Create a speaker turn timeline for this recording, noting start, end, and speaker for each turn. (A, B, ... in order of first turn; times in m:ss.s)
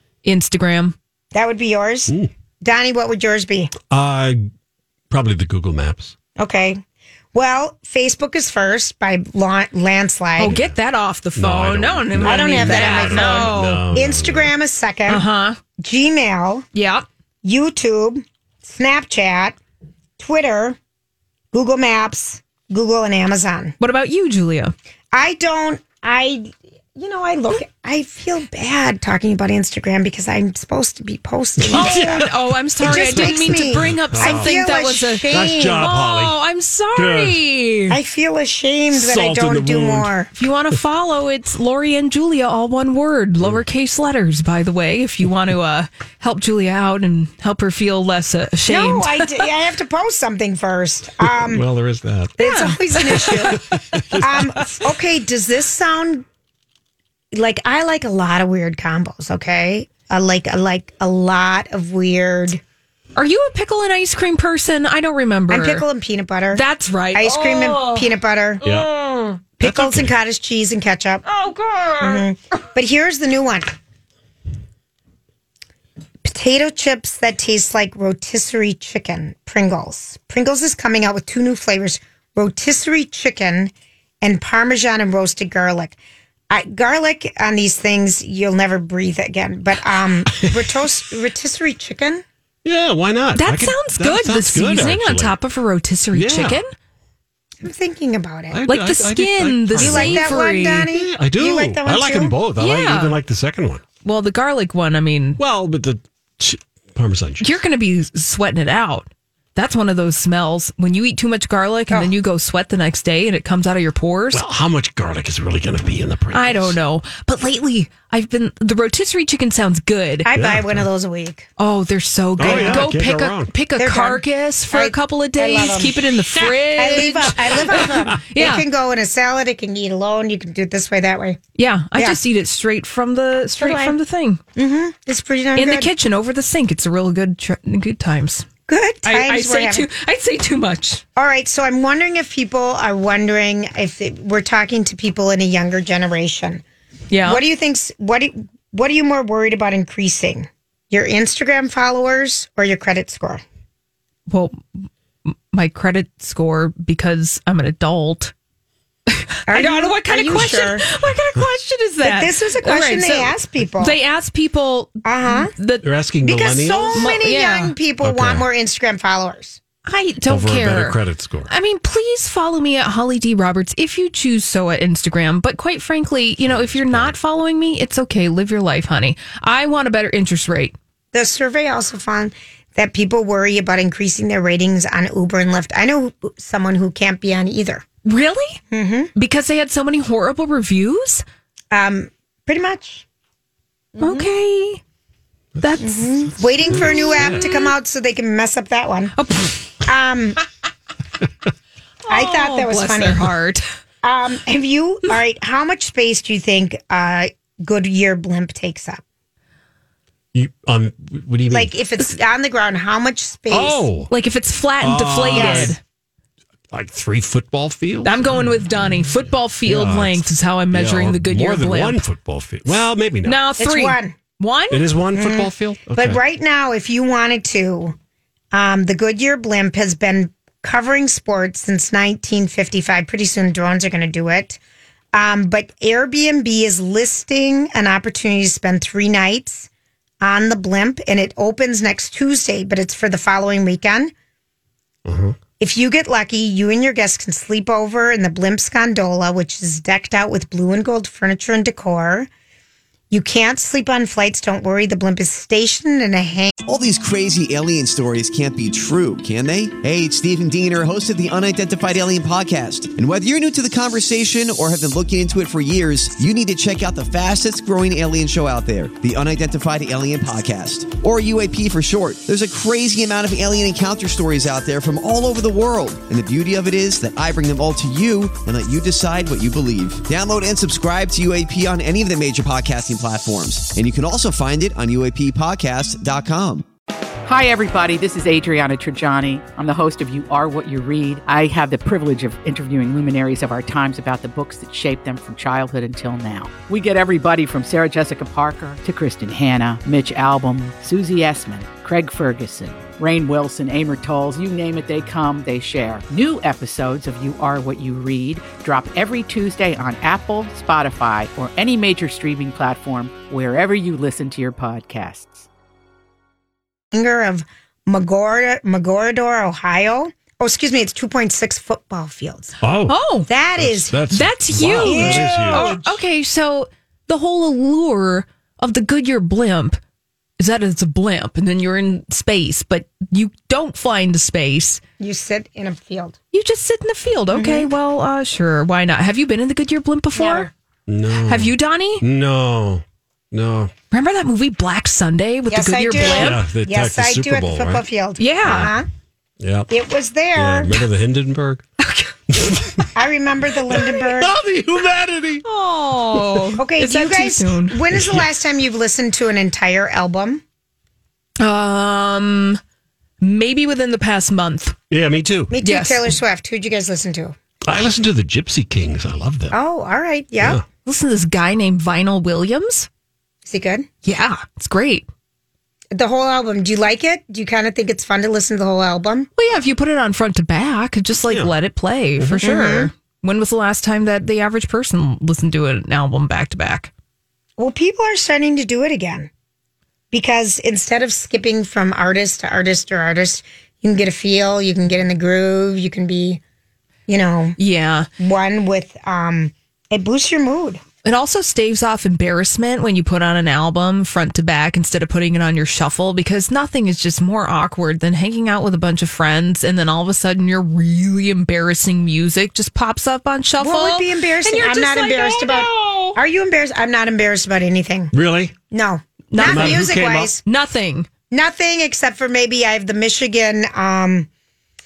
0:00.2-0:01.0 A
0:01.3-0:03.7 B
0:03.9-0:04.5 C
0:05.1-0:06.1 C
0:06.4-0:06.8 B
0:07.3-0:10.6 B
0:10.4-0:13.8 A
0:10.4-0:10.8 C
0:11.4-0:14.5 C
0:12.2-0:15.2 B
0:15.1-0:15.6 A
0:15.8-0:16.6 B
0:16.8-0:17.1 A
0:17.4-0:19.6 B
0:20.2-0:20.8 B
0:21.5-0:23.8 B
0:23.8-0:24.7 A
0:25.1-0:32.3 B
0:31.6-0:32.3 C
0:31.7-0:38.0 A
0:32.8-0:35.9 B
0:32.8-0:34.6 C
0:35.3-0:36.4 C
0:37.0-0:37.4 C
0:37.9-0:40.3 B
0:38.9-0:40.1 C
0:40.4-0:49.5 A
0:48.7-0:51.7 B
0:51.4-0:52.4 C
0:52.4-0:53.6 B
0:52.4-0:53.6 A
0:53.0-0:54.3 C
0:54.2-0:56.3 B
0:57.3-1:02.6 B
1:03.2-1:05.9 A
1:05.5-1:08.6 B
1:06.5-1:08.1 A
1:08.6-1:09.4 A
1:09.6-1:11.2 B
1:09.6-1:10.1 C
1:11.2-1:12.2 A
1:12.0-1:13.7 B
1:16.2-1:26.0 B
1:26.5-1:32.2 B
1:32.6-1:35.4 C
1:33.4-1:36.7 A
1:36.1-1:36.6 C
1:37.6-1:38.6 B
1:38.5-1:43.8 C
1:38.7-1:40.9 A
1:39.8-1:42.4 B
1:42.6-1:43.2 A
1:44.0-1:45.4 A
1:45.4-1:47.5 C
1:47.4-1:54.4 A
1:54.3-1:56.8 C
1:56.3-2:00.3 A
2:00.2-2:01.5 B
2:00.3-2:00.8 C
2:01.6-2:08.6 A
2:02.4-2:03.5 C
2:02.4-2:02.9 B
2:03.8-2:11.4 B
2:11.6-2:14.4 A
2:13.6-2:14.0 B
2:14.6-2:15.9 B
2:15.6-2:18.5 A
2:18.7-2:19.9 B
2:19.1-2:21.0 A
2:21.2-2:26.6 B
2:27.1-2:27.4 A
2:27.2-2:33.4 B
2:34.3-2:38.3 A
2:39.2-2:45.9 A
2:39.5-2:40.9 B
2:42.0-2:44.0 B
2:45.0-2:45.5 B
2:45.8-2:47.1 C
2:46.2-2:49.6 B
2:46.9-2:47.8 A
2:48.0-2:48.4 C
2:49.8-3:00.8 A
2:50.3-2:51.5 C
2:56.4-2:57.2 C
3:01.1-3:07.8 B
3:08.0-3:08.6 A
3:08.7-3:09.1 B
3:09.2-3:11.2 A
3:11.7-3:13.0 B
3:14.0-3:14.3 B
3:14.0-3:14.8 A
3:15.6-3:17.7 A
3:15.8-3:19.2 B
3:16.7-3:17.4 C
3:19.2-3:19.6 A
3:19.8-3:20.4 B
3:22.1-3:23.6 A
3:22.1-3:23.3 B
3:24.0-3:29.0 B
3:30.3-3:31.7 C
3:31.5-3:33.9 B
3:33.5-3:34.1 C
3:34.1-3:35.8 A
3:34.8-3:35.8 C
3:35.3-3:35.8 B
3:36.7-3:38.6 C
3:38.0-3:42.0 A
3:39.6-3:43.4 C
3:43.2-3:44.9 A
3:43.6-3:44.2 B
3:44.7-3:46.2 C
3:45.1-3:48.0 B
3:48.5-3:54.6 B
3:55.1-3:59.7 B
4:00.2-4:04.1 B
4:05.0-4:05.4 C
4:05.6-4:12.3 B
4:13.1-4:16.6 B
4:16.6-4:46.7 D
4:47.2-5:15.5 E
5:16.9-5:22.6 B
5:22.6-5:23.0 C
5:22.9-5:23.3 A
5:23.3-5:24.0 B
5:23.6-5:25.8 C
5:24.1-5:29.8 A
5:24.6-5:25.9 B
5:30.4-5:34.8 A
5:35.0-5:36.2 B
5:36.3-5:40.5 A
5:37.3-5:37.7 B
5:40.2-5:40.5 B
5:40.9-5:43.7 C
5:41.3-5:42.0 A
5:43.9-5:46.4 A
5:45.5-5:48.9 B
5:46.0-5:47.8 C
5:48.2-5:48.7 A
5:48.4-5:48.7 C
5:49.4-5:49.7 C
5:49.7-5:50.8 B
5:50.4-5:51.6 C
5:52.3-5:52.9 C
5:52.9-5:54.3 B
5:53.7-5:55.4 C
5:55.4-5:57.8 A
5:56.6-6:00.4 B
5:57.9-5:58.2 C
6:01.4-6:02.6 A
6:03.2-6:04.8 A
6:04.9-6:05.5 C
6:05.5-6:07.4 B
6:05.6-6:06.1 A
6:07.6-6:09.6 C
6:09.5-6:10.6 B
6:10.8-6:12.9 A
6:13.4-6:13.9 B
6:14.0-6:15.1 A
6:15.9-6:19.3 B
6:19.4-6:26.9 A
6:21.3-6:21.5 C
6:22.2-6:22.4 C
6:22.4-6:22.9 B
6:27.6-6:29.3 B
6:30.1-6:36.4 B
6:37.1-6:37.6 B
6:37.6-6:38.1 A
6:38.2-6:40.8 B
6:41.0-6:56.2 A
6:53.6-6:58.1 B
6:58.1-6:58.6 C
6:58.7-7:00.4 B
6:59.3-7:01.1 A
6:59.4-7:00.3 C
7:01.3-7:04.3 B